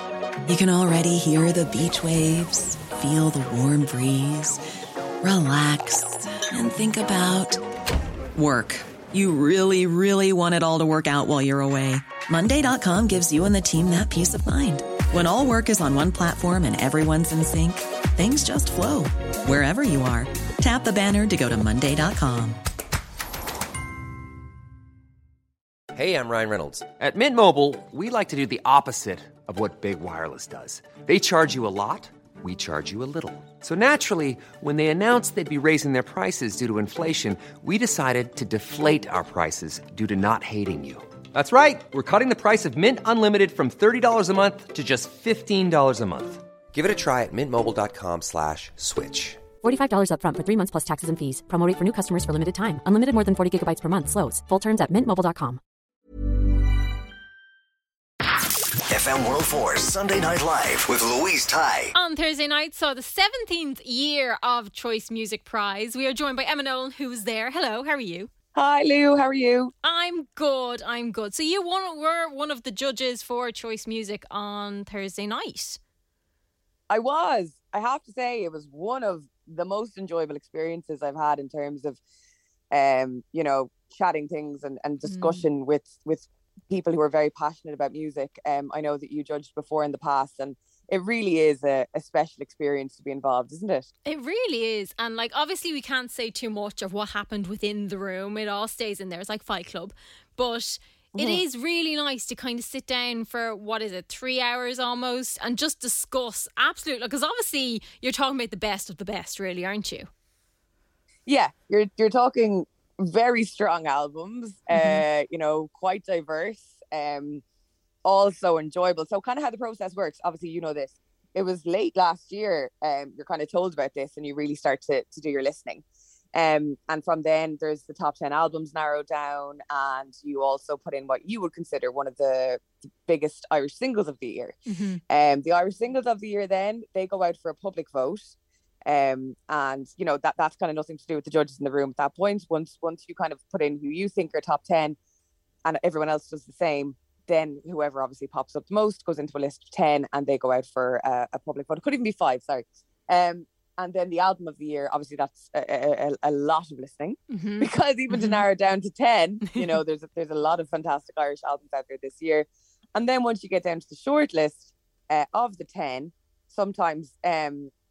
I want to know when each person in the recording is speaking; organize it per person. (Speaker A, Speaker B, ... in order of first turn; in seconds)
Speaker A: 0.5-4.6, 5.2-7.6, 8.3-22.6
Speaker B: 25.9-49.5
Speaker C: 49.6-55.6
Speaker D: 58.9-61.9
Speaker E: 61.9-68.3, 69.8-75.8, 85.0-85.4, 94.0-110.1, 114.7-115.0, 134.7-135.0, 157.3-158.4
Speaker F: 68.5-69.7, 76.9-82.0, 82.7-93.9, 111.2-117.4, 118.0-134.5, 135.1-138.3, 138.8-144.9, 145.6-167.7